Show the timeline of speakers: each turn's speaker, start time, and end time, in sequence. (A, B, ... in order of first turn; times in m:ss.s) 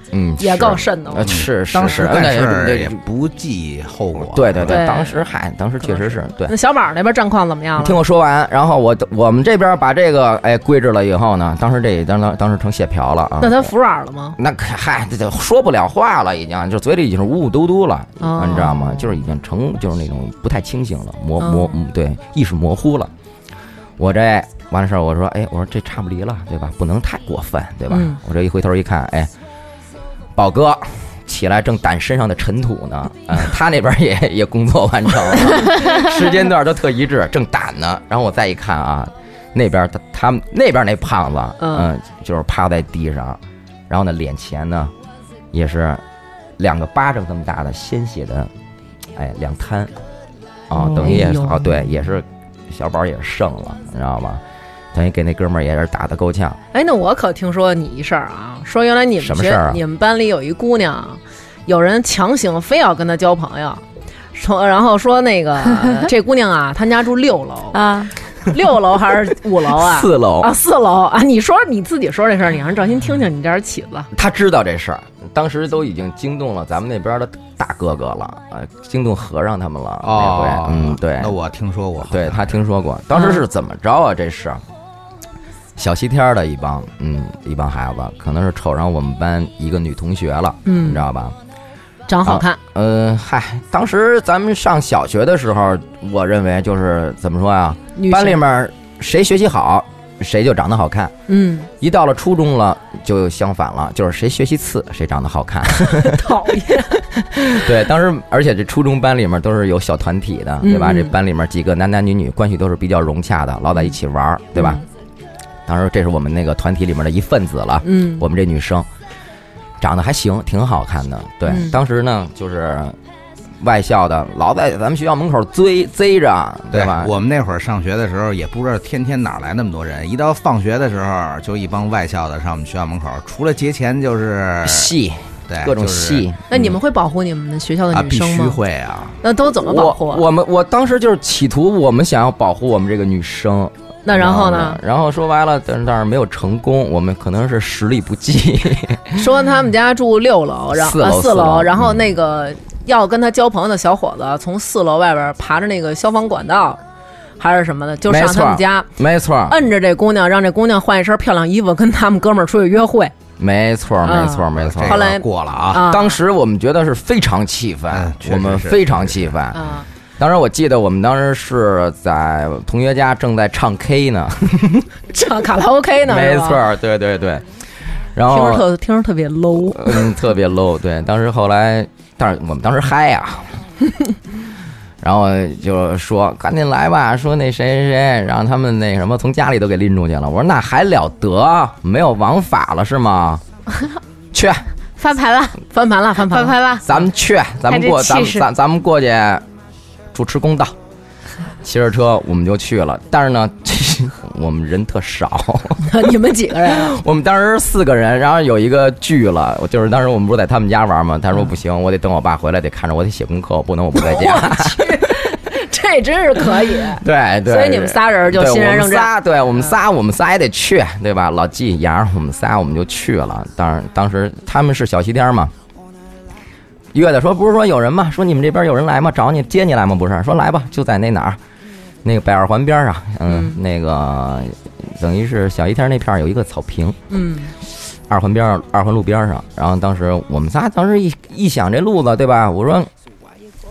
0:00.1-0:03.0 A
0:00.4-0:01.4 B
0:01.2-0:04.8 C
0:04.2-0:06.5 A
0:04.6-0:05.2 B
0:05.8-0:08.0 B
0:07.8-0:13.7 A
0:13.4-0:14.4 B
0:14.4-0:23.1 A
0:18.2-0:19.1 B
0:21.4-0:21.8 B
0:24.0-0:29.3 A
0:27.9-0:28.2 B
0:30.3-0:44.9 A
0:41.6-0:41.9 B
0:45.5-0:46.0 A
0:46.6-0:48.5 A
0:49.1-0:49.9 A
0:50.7-0:54.4 A
0:50.7-0:52.0 B
0:54.9-0:56.6 A
0:56.7-1:03.8 B
0:59.2-0:59.8 A
1:04.3-1:07.8 B
1:07.7-1:08.1 D
1:08.4-1:14.1 B
1:09.6-1:10.5 A
1:14.1-1:21.3 A
1:20.0-1:22.5 C
1:22.0-1:24.6 A
1:23.1-1:23.4 B
1:25.8-1:31.3 A
1:30.6-1:31.0 B
1:32.1-1:32.6 B
1:32.2-1:41.1 A
1:38.0-1:38.4 B
1:41.3-1:41.7 B
1:41.8-1:54.8 A
1:45.9-1:47.0 B
1:50.6-1:51.1 B
1:54.6-1:54.8 B
1:55.6-1:58.9 A
1:57.8-1:58.2 B
1:59.8-2:03.0 A
2:01.5-2:01.8 B
2:03.6-2:07.1 A
2:06.7-2:14.9 C
2:14.6-2:16.7 A
2:15.5-2:16.3 C
2:16.5-2:18.6 B
2:17.9-2:19.2 C
2:19.2-2:20.2 B
2:19.6-2:29.2 A
2:24.0-2:24.8 B
2:29.2-2:36.8 B
2:30.7-2:32.0 A
2:37.4-2:38.9 B
2:38.0-2:39.6 A
2:39.5-2:43.1 B
2:43.4-2:45.1 A
2:44.0-2:46.2 B
2:44.6-2:45.8 C
2:45.7-2:49.7 A
2:47.9-2:49.3 C
2:49.5-2:49.8 B
2:50.2-2:54.9 A
2:55.1-2:56.6 B
2:56.0-2:57.4 A
2:58.1-2:58.7 A
2:58.3-3:00.1 B
2:59.7-3:03.6 A
3:05.0-3:13.4 A
3:14.3-3:14.7 A
3:15.0-3:15.6 D
3:15.7-3:16.6 B
3:16.2-3:16.9 D
3:16.8-3:19.4 A
3:17.7-3:18.4 D
3:20.1-3:20.7 A
3:21.6-3:26.0 A
3:25.8-3:27.0 B
3:26.6-3:34.9 A
3:33.9-3:39.1 B
3:36.9-3:45.5 A
3:46.9-3:51.4 A
3:52.0-3:57.0 A
3:53.3-3:53.6 B
3:57.1-3:57.5 B
3:58.1-4:02.9 A